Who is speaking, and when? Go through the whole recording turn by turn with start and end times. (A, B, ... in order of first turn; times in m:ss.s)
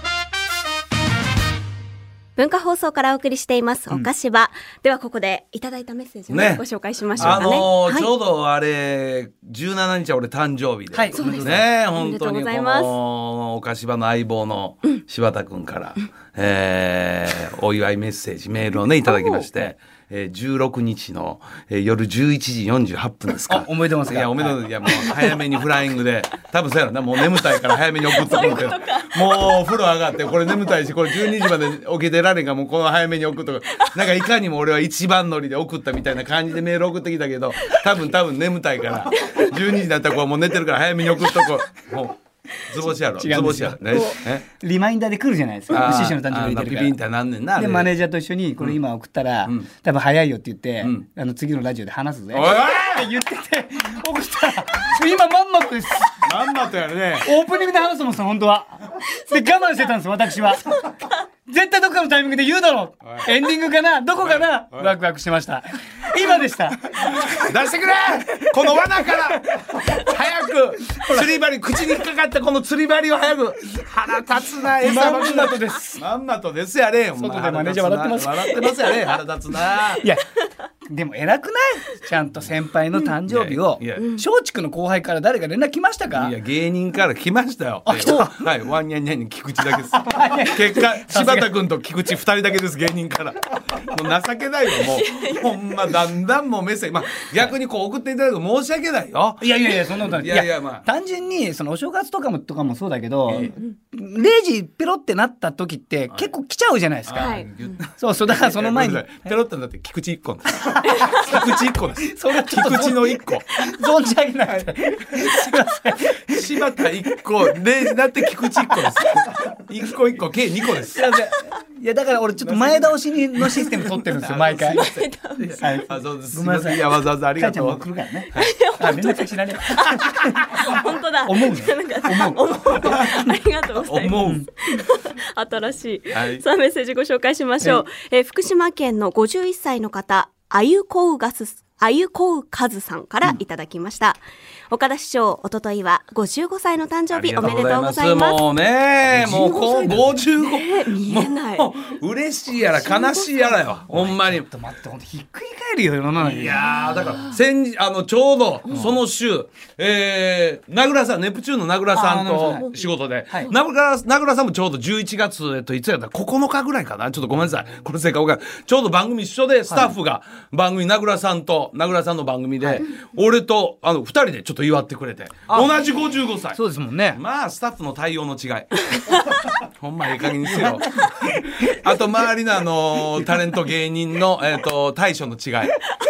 0:02.4-0:08.1 A
0:06.3-0:06.6 B
0:07.2-0:44.4 B
0:07.2-0:07.5 C
0:10.9-0:11.6 C
0:11.1-0:12.9 A
0:19.1-0:19.5 A
0:23.5-0:24.6 C
0:28.0-0:29.6 A
0:39.2-0:39.5 A
0:43.2-0:47.0 C
0:45.7-0:47.9 B
0:47.6-0:56.4 C
0:52.3-0:53.1 B
0:56.2-0:57.3 B
0:57.2-1:07.4 C
1:03.0-1:03.3 B
1:04.2-1:04.9 B
1:07.0-1:20.1 B
1:11.0-1:11.3 C
1:14.8-1:16.0 C
1:17.2-1:18.6 C
1:20.0-1:20.3 C
1:20.9-1:26.3 C
1:23.3-1:24.2 B
1:26.2-1:40.9 B
1:27.9-1:28.5 C
1:29.8-1:31.5 C
1:34.9-1:35.6 A
1:39.4-1:47.4 C
1:43.3-1:43.6 B
1:47.1-1:53.5 B
1:47.2-1:47.7 A
1:48.0-1:49.3 C
1:50.9-1:51.2 A
1:52.0-1:56.5 C
1:56.3-2:01.1 B
2:00.9-2:05.0 C
2:02.4-2:08.5 B
2:04.8-2:05.6 A
2:05.6-2:13.3 C
2:08.4-2:28.4 A
2:12.9-2:13.2 B
2:13.8-2:14.5 B
2:14.2-2:14.5 C
2:16.1-2:16.4 B
2:27.1-2:34.5 B
2:29.1-2:30.2 C
2:30.4-2:31.7 A
2:32.6-2:33.8 A
2:33.9-2:37.1 C
2:36.2-2:56.6 B
2:38.7-2:39.0 C
2:41.9-2:42.7 C
2:49.7-2:50.0 C
2:55.5-2:55.8 C
2:56.6-2:57.2 C
2:57.1-3:05.8 B
3:00.4-3:01.9 C